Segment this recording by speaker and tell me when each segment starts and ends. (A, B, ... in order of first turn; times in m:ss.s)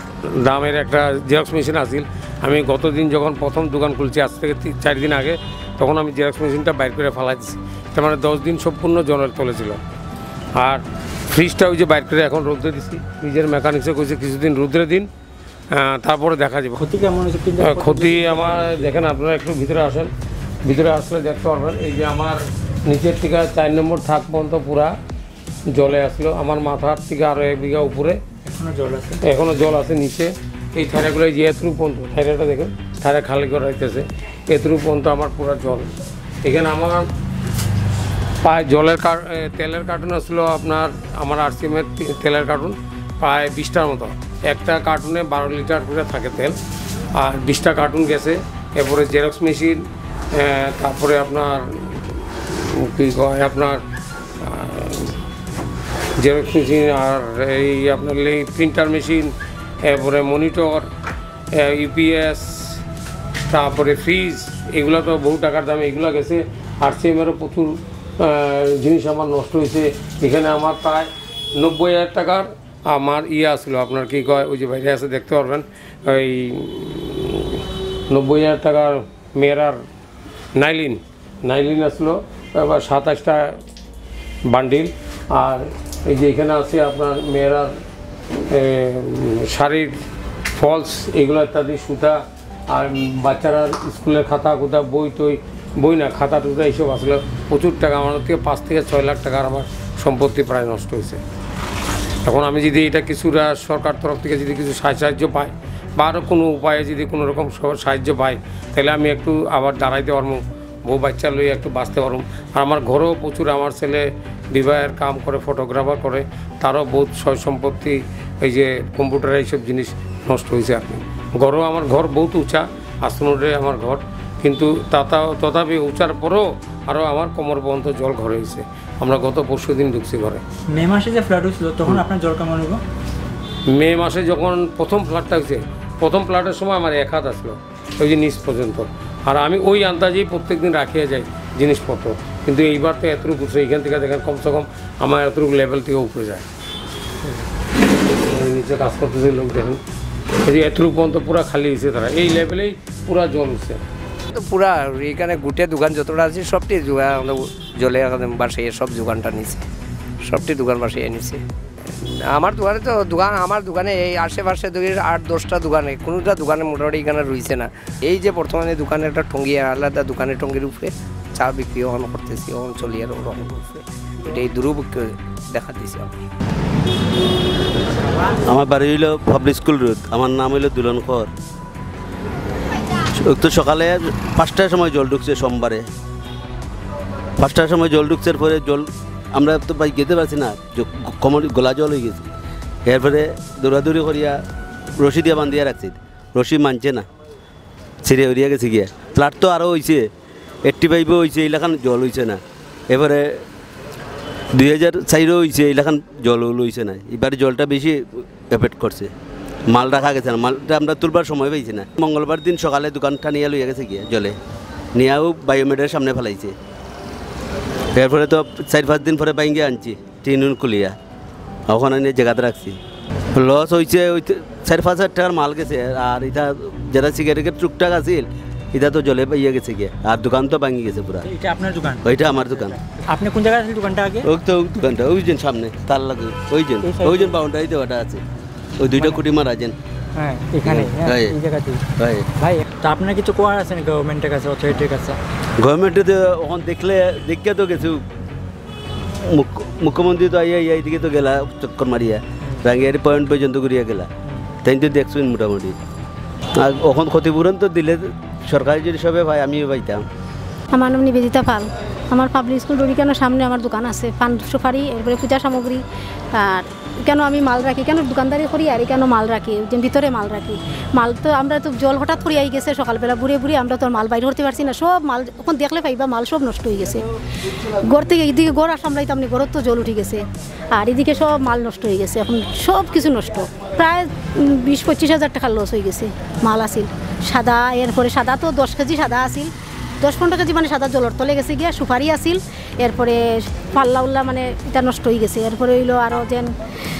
0:00.4-0:09.8 A
0:10.6-0:15.1 A
0:15.7-0:16.8 A
0:16.8-0:18.9 B
0:17.6-0:20.1 A
0:20.6-0:24.9 A
0:25.7-0:28.2 A
0:28.4-0:29.2 B
0:29.3-0:35.9 A
0:36.4-0:37.1 A
0:38.4-0:46.6 A
0:47.2-0:53.8 A
0:54.4-0:55.2 A
0:56.2-0:59.3 A
0:59.8-1:00.9 A
1:01.6-1:02.8 A
1:03.4-1:19.8 A
1:20.6-1:23.6 A
1:24.5-1:27.7 A
1:28.5-1:30.0 A
1:30.6-1:41.2 A
1:42.2-2:10.4 A
2:10.7-2:12.8 B
2:13.7-2:26.4 A
2:28.1-2:29.8 A
2:30.4-2:33.8 A
2:34.3-2:39.6 C
2:40.2-2:41.4 C
2:41.9-2:56.2 C
2:58.4-3:01.3 D
3:03.2-3:05.9 D
3:07.4-3:12.3 D
3:12.9-3:14.4 D
3:15.0-3:17.1 D
3:18.0-3:20.1 D
3:20.6-3:23.4 D
3:24.5-3:29.1 D
3:29.7-3:34.4 D
3:35.0-3:36.6 D
3:38.0-3:41.0 D
3:41.7-3:42.8 D
3:43.4-3:51.3 D
3:51.2-3:54.3 B
3:52.0-3:52.8 D
3:54.2-3:58.2 D
3:56.8-3:57.4 B
3:58.8-3:59.8 D
3:59.0-3:59.2 B
4:00.2-4:01.9 B
4:00.6-4:01.4 D
4:02.0-4:02.3 D
4:02.4-4:05.2 B
4:05.6-4:08.0 D
4:09.2-4:14.1 D
4:14.6-4:15.8 D
4:16.6-4:20.0 D
4:20.7-4:37.0 E
4:37.8-4:49.5 E
4:50.0-4:56.5 E